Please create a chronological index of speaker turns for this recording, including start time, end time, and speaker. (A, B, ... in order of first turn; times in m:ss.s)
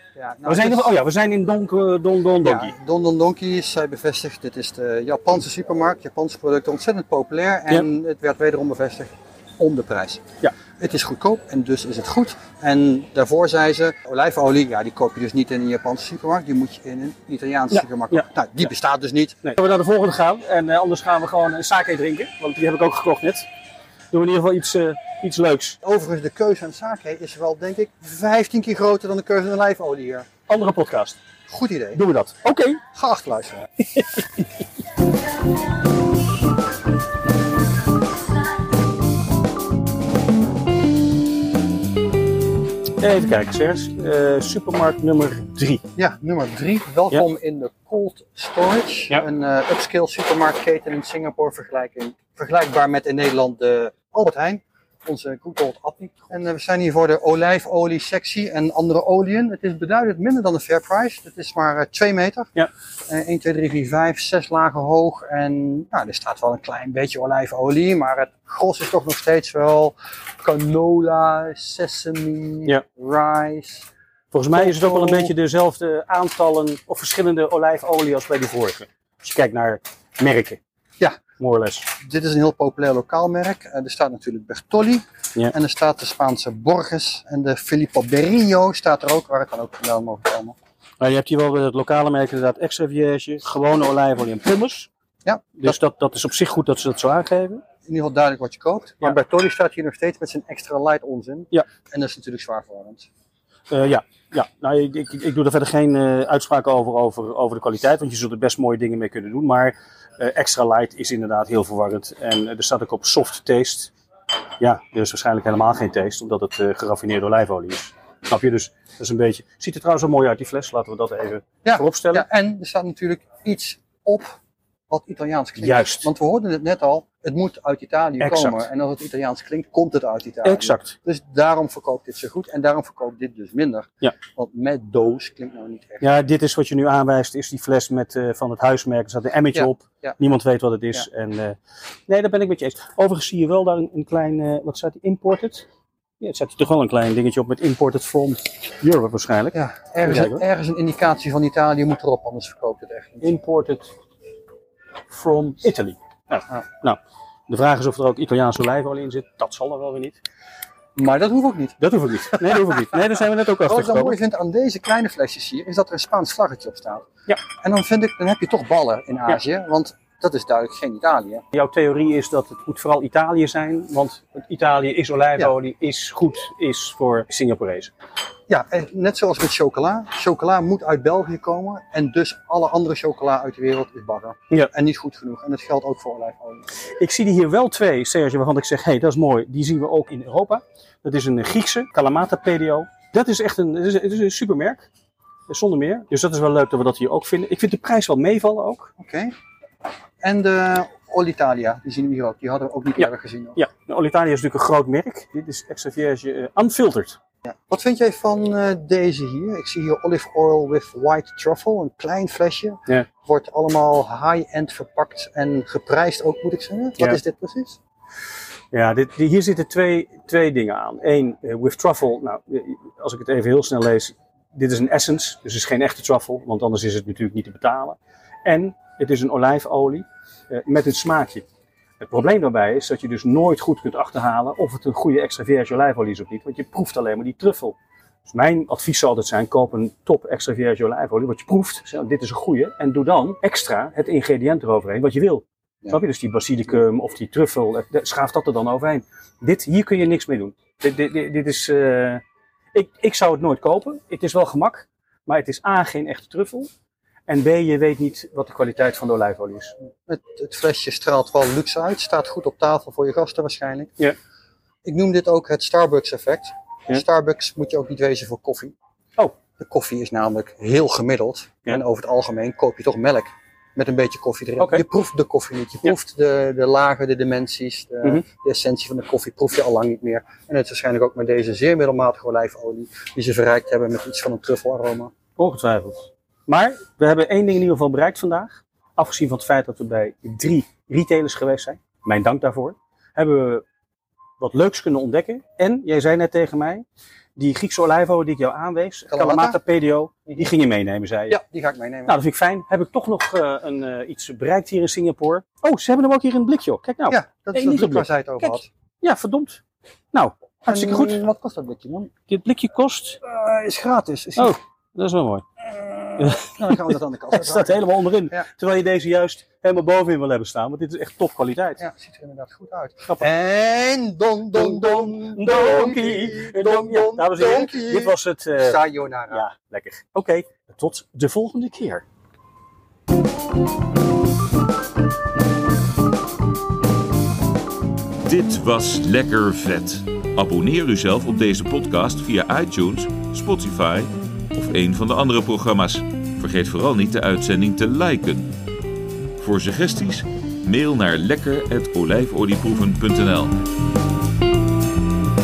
0:00.2-0:01.0 A
0:00.4-0:02.7 B
0:02.4-0:19.4 A
0:17.7-0:18.2 B
0:19.4-0:23.5 B
0:24.1-0:25.8 B
0:25.8-0:30.3 A
0:30.5-0:31.2 B
0:31.5-0:32.0 A
0:32.0-0:32.8 B
0:32.9-0:33.7 A
0:33.9-0:34.5 B
0:43.0-0:45.8 B
0:46.0-1:02.5 A
1:03.1-1:13.9 A
1:14.3-1:20.6 B
1:14.5-1:15.3 A
1:21.4-1:21.9 B
1:22.0-1:30.6 A
1:31.0-1:34.9 B
1:35.2-1:35.8 A
1:35.6-1:37.6 B
1:37.9-1:43.1 A
1:43.7-1:53.9 B
1:54.6-2:02.3 B
2:01.6-2:04.4 A
2:04.9-2:16.1 A
2:05.6-2:06.1 B
2:08.2-2:08.7 B
2:10.4-2:11.0 B
2:16.0-2:25.7 B
2:19.5-2:20.2 A
2:26.2-2:30.4 B
2:29.5-2:33.3 A
2:33.2-2:33.9 B
2:35.1-2:40.2 B
2:41.0-2:41.8 A
2:41.8-2:44.2 B
2:42.3-2:51.4 A
2:51.5-2:57.9 B
2:58.5-3:06.6 A
3:07.0-3:14.9 B
3:15.5-3:18.9 B
3:19.0-3:19.3 A
3:20.2-3:23.6 A
3:23.0-3:27.2 B
3:27.4-3:37.8 A
3:38.7-3:51.5 B
3:52.0-4:12.2 B
4:12.7-4:16.7 B
4:17.3-4:19.7 B
4:20.1-4:23.9 A
4:24.8-4:28.7 A
4:29.6-4:45.1 A
4:34.6-4:34.8 B
4:45.4-4:53.6 B
4:54.4-4:56.8 B
4:57.4-5:01.4 B
4:59.1-4:59.6 A
5:01.3-5:02.2 A
5:02.1-5:09.6 B
5:07.1-5:08.7 A
5:10.1-5:11.2 B
5:10.7-5:12.1 A
5:12.3-5:13.2 B
5:13.2-5:14.6 A
5:14.4-5:15.5 B
5:15.6-5:18.5 A
5:16.2-5:21.8 B
5:21.8-5:29.4 A
5:24.5-5:32.0 B
5:38.2-5:48.5 C
5:49.4-5:53.6 C